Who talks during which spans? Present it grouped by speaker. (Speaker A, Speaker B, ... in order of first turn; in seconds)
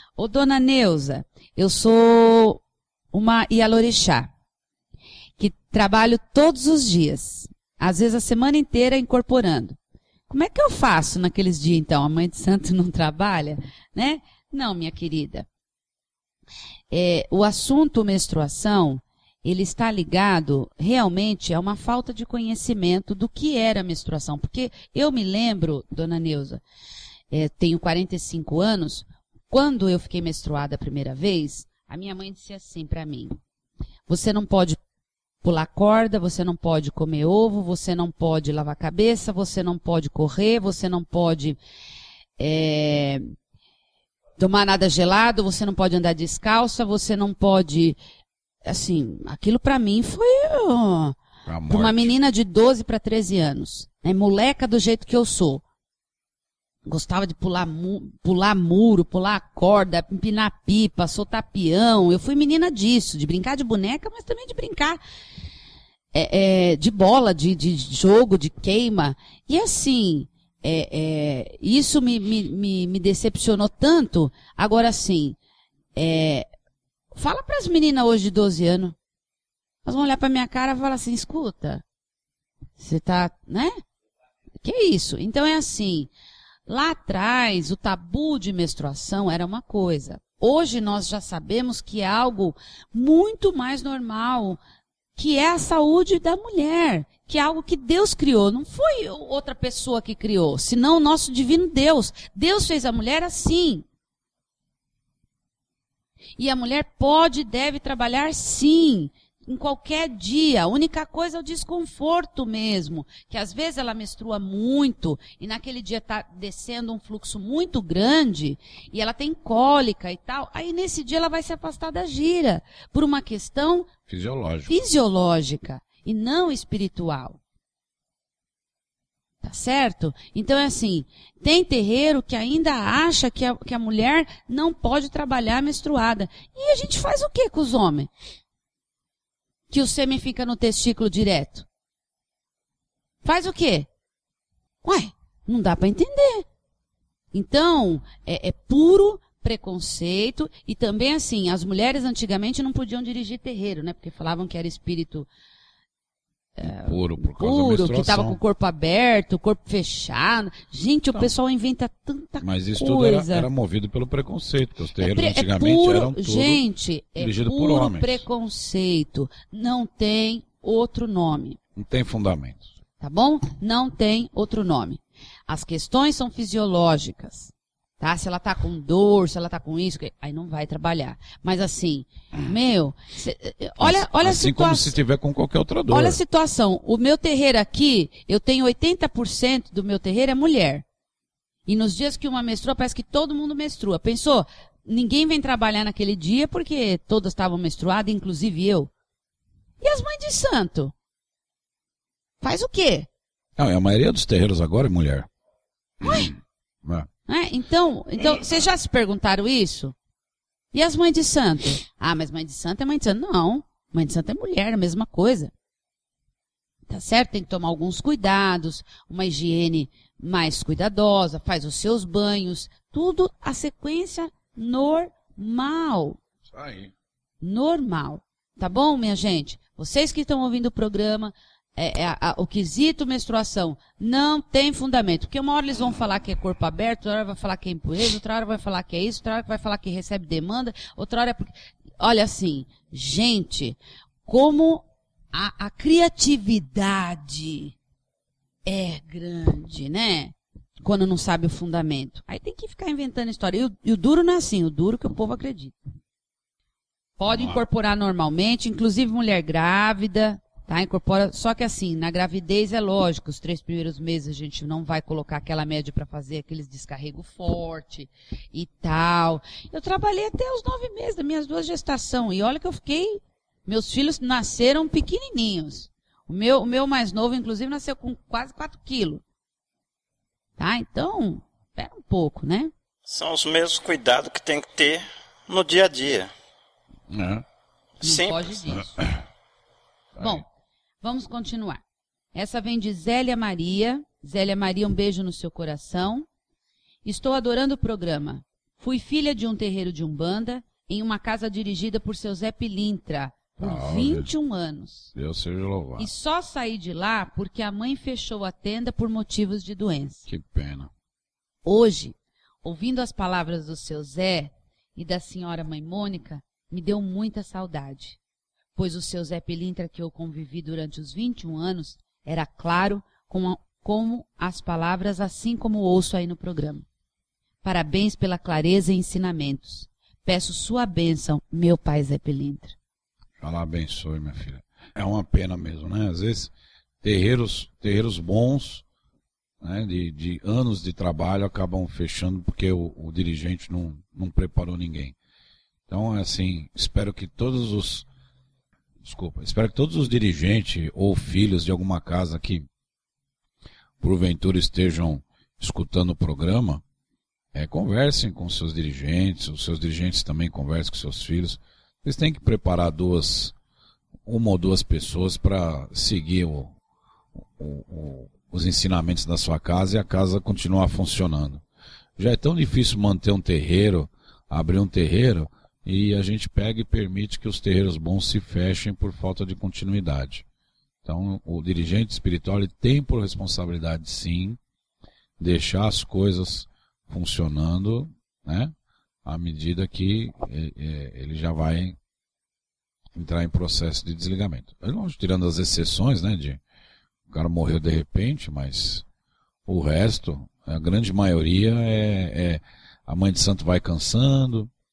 Speaker A: 0.2-4.3, 5.4-9.8, 10.3-15.5, 16.9-26.6, 27.3-33.4, 34.1-34.8, 35.4-41.6, 42.4-43.3, 44.4-48.0, 48.6-51.2, 51.7-55.6, 56.9-65.0, 66.1-75.4, 75.9-76.5, 77.1-79.0, 79.8-81.8, 82.8-83.8, 84.6-86.1, 86.7-94.6, 95.2-103.8, 106.4-123.9, 124.7-127.4, 129.4-138.1, 139.7-141.7, 143.2-143.9, 144.8-146.4, 147.3-155.3, 156.6-163.5, 165.0-171.6, 173.0-184.9, 185.9-190.8, 191.7-198.9, 199.8-200.9, 202.4-203.1, 206.0-206.3, 207.3-209.9, 210.7-215.5, 216.9-226.2, 227.4-247.7, 248.6-255.8, 257.2-279.2, 280.6-282.7, 288.0-289.0, 291.0-291.8, 292.3-296.3, 297.0-305.1, 306.0-310.2, 311.6-318.2, 318.7-326.8, 327.6-332.8
Speaker B: 51.5-52.1, 124.1-124.8, 156.6-158.4, 162.4-166.6, 167.2-168.2, 171.8-172.7, 183.8-186.2, 203.6-205.3, 206.0-207.1, 226.5-226.9, 257.3-257.6, 287.1-287.4, 288.7-289.2, 290.1-290.4, 303.6-304.3, 305.1-306.1, 310.3-310.9, 333.4-338.8, 339.6-345.1, 345.9-348.1, 349.0-352.7, 354.0-356.8, 357.5-363.5, 364.2-366.7, 367.5-371.6, 372.2-380.4, 381.0-384.6, 385.4-388.7, 389.2-392.0, 393.1-396.6, 397.3-399.0, 399.6-404.7
Speaker C: 283.1-286.3, 288.0-288.6